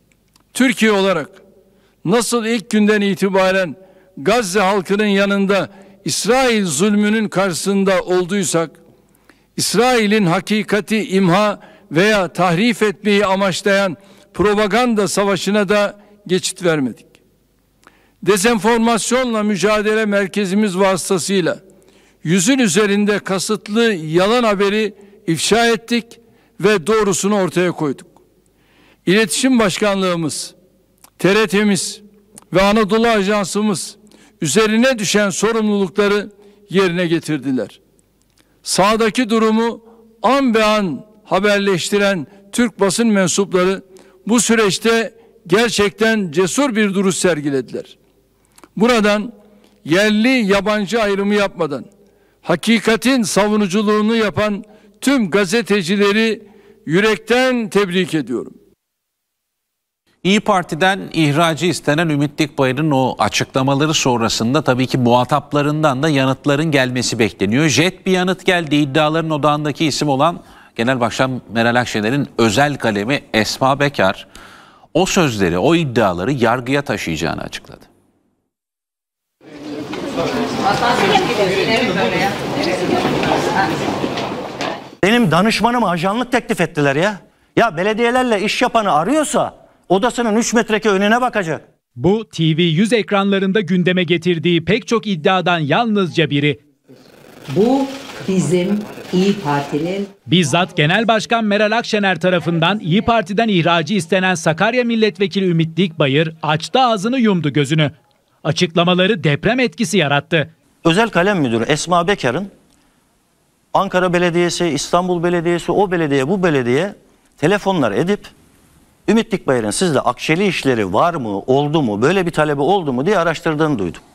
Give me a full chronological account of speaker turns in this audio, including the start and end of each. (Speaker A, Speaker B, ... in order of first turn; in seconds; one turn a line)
Speaker A: 0.5-1.4
Speaker A: 2.0-8.8
Speaker A: 9.6-17.1
Speaker A: 18.2-21.6
Speaker A: 22.2-28.1
Speaker A: 29.1-30.5
Speaker A: 31.2-37.8
Speaker A: 38.6-47.9
Speaker A: 48.8-49.3
Speaker A: 49.8-51.9
Speaker A: 52.4-58.5
Speaker B: 60.2-74.3
Speaker B: 74.9-77.9
Speaker C: 85.0-91.6
Speaker D: 92.0-96.6
Speaker E: 97.5-100.1
Speaker D: 100.3-107.9
Speaker D: 108.4-110.5
Speaker C: 110.8-112.5
Speaker C: 113.7-118.3
Speaker C: 119.1-124.0